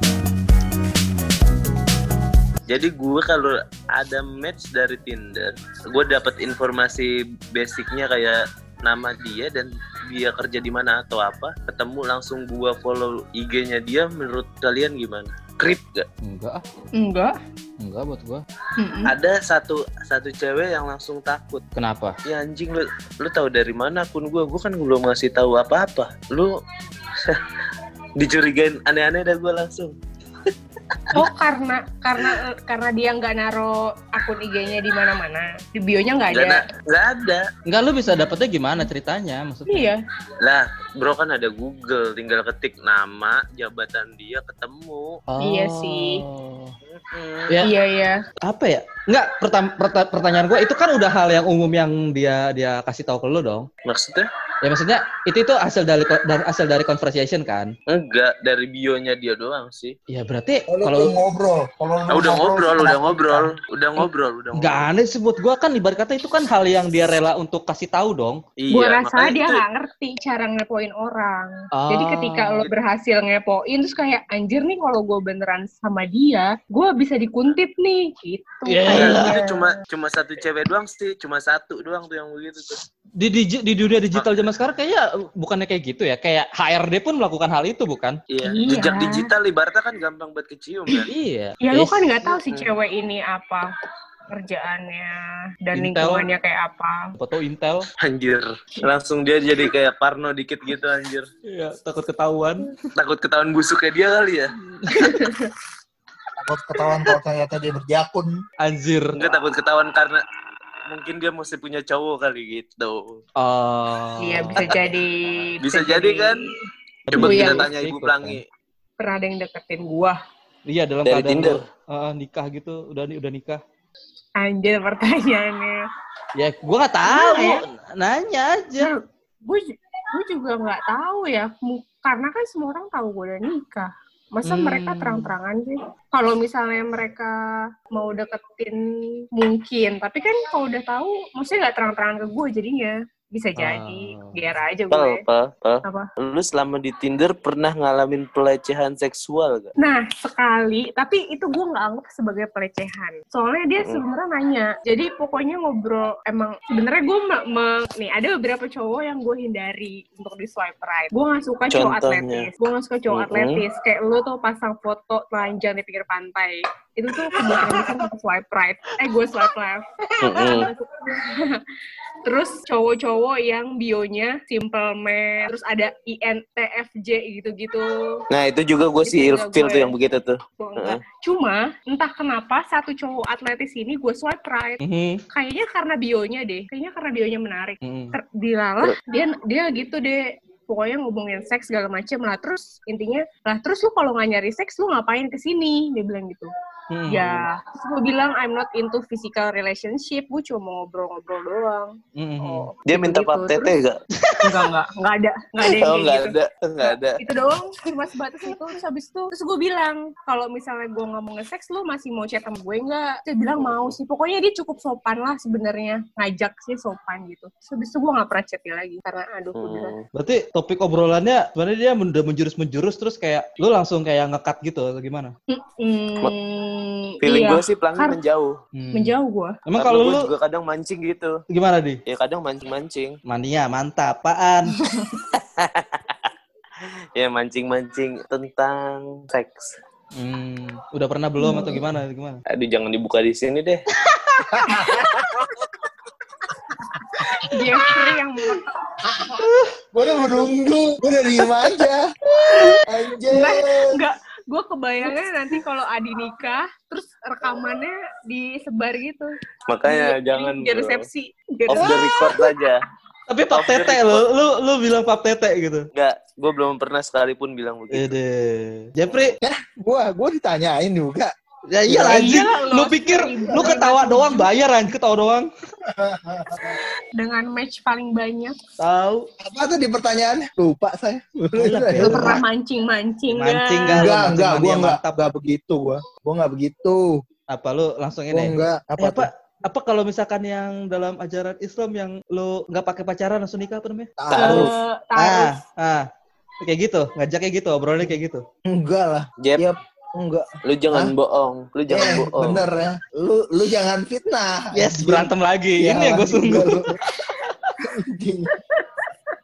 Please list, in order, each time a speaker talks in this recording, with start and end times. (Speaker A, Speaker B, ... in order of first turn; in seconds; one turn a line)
Speaker A: 2.7-16.1
Speaker B: 16.2-16.6
Speaker C: 16.9-17.4
Speaker B: 17.8-18.4
Speaker C: 18.8-19.1
Speaker A: 19.0-21.6
Speaker B: 21.7-22.2
Speaker A: 22.2-26.6
Speaker A: 27.1-27.4
Speaker A: 28.2-29.9
Speaker A: 30.9-31.2
Speaker C: 31.1-36.6
Speaker A: 36.3-37.5
Speaker B: 37.6-39.9
Speaker C: 39.7-40.0
Speaker A: 40.4-45.2
Speaker B: 45.3-46.8
Speaker C: 45.4-46.2
Speaker A: 46.9-47.5
Speaker C: 47.6-48.2
Speaker B: 48.4-53.7
Speaker A: 53.8-54.3
Speaker B: 54.6-57.7
Speaker A: 57.9-60.0
Speaker B: 60.1-61.1
Speaker D: 60.7-63.5
Speaker A: 62.1-64.8
Speaker B: 64.0-68.4
Speaker A: 68.6-69.6
Speaker C: 68.7-79.7
Speaker B: 71.7-72.6
Speaker B: 78.7-79.4
Speaker A: 78.9-82.8
Speaker B: 83.2-88.2
Speaker A: 84.1-84.5
Speaker A: 88.3-91.1
Speaker C: 88.5-89.3
Speaker B: 90.9-92.0
Speaker C: 91.6-93.7
Speaker A: 92.2-92.7
Speaker C: 94.3-97.1
Speaker B: 95.7-96.3
Speaker B: 97.2-97.8
Speaker A: 98.0-101.3
Speaker B: 101.5-102.9
Speaker A: 103.0-104.5
Speaker B: 104.6-105.4
Speaker C: 104.9-105.5
Speaker D: 106.4-108.3
Speaker B: 108.6-109.2
Speaker A: 109.1-110.2
Speaker A: 110.9-113.2
Speaker B: 113.4-114.8
Speaker C: 114.2-116.5
Speaker A: 114.6-114.9
Speaker A: 115.6-116.4
Speaker B: 117.1-118.4
Speaker A: 117.1-118.4
Speaker C: 117.1-117.7
Speaker C: 119.0-120.2
Speaker B: 120.7-123.6
Speaker A: 121.0-121.6
Speaker C: 124.4-125.8
Speaker B: 126.3-128.9
Speaker C: 127.0-127.6
Speaker C: 128.8-145.2
Speaker B: 134.4-135.3
Speaker B: 143.6-144.4
Speaker A: 144.9-149.7
Speaker C: 149.8-171.6
Speaker A: 161.7-162.5
Speaker A: 163.1-163.6
Speaker A: 170.2-170.7
Speaker C: 172.2-178.2
Speaker A: 178.3-181.0
Speaker C: 179.1-179.9
Speaker C: 180.6-196.5
Speaker B: 184.8-185.2
Speaker B: 187.8-188.2
Speaker B: 196.9-197.5
Speaker C: 197.1-203.7
Speaker B: 202.2-202.7
Speaker A: 202.9-204.0
Speaker B: 204.2-204.6
Speaker C: 204.4-219.9
Speaker A: 205.6-207.2
Speaker A: 213.6-213.9
Speaker A: 219.6-220.1
Speaker B: 220.1-225.3
Speaker C: 225.5-228.2
Speaker A: 227.2-228.6
Speaker B: 228.7-230.3
Speaker C: 228.9-229.6
Speaker A: 229.8-231.4
Speaker B: 231.5-232.0
Speaker A: 232.1-233.2
Speaker B: 233.2-234.8
Speaker C: 234.7-235.2
Speaker A: 235.3-236.3
Speaker A: 236.8-239.7
Speaker B: 240.1-242.4
Speaker C: 241.4-241.8
Speaker A: 242.5-243.8
Speaker B: 244.1-244.5
Speaker D: 244.5-245.1
Speaker C: 244.7-245.6
Speaker D: 247.2-247.5
Speaker C: 247.4-248.8
Speaker D: 249.0-254.0
Speaker C: 253.3-259.3
Speaker A: 259.7-261.1
Speaker C: 259.9-262.5
Speaker A: 261.7-262.8
Speaker B: 263.3-265.9
Speaker A: 263.5-264.2
Speaker A: 265.9-268.1
Speaker B: 267.9-269.4
Speaker A: 269.0-269.3
Speaker D: 269.4-271.3
Speaker B: 271.7-275.5
Speaker D: 271.9-272.4
Speaker C: 271.9-274.5
Speaker D: 275.8-276.8
Speaker C: 277.1-278.5
Speaker B: 278.8-279.3
Speaker D: 279.4-282.4
Speaker B: 281.6-282.4
Speaker C: 282.0-284.2
Speaker B: 283.3-285.1
Speaker D: 283.9-287.2
Speaker B: 287.5-296.0
Speaker D: 288.3-289.3
Speaker D: 294.2-294.7
Speaker C: 294.3-295.6
Speaker B: 296.6-298.4
Speaker D: 298.6-301.1
Speaker A: 299.4-299.7
Speaker A: 300.6-302.6
Speaker D: 301.9-306.9
Speaker B: 304.7-307.7
Speaker D: 307.8-308.5
Speaker C: 308.7-309.1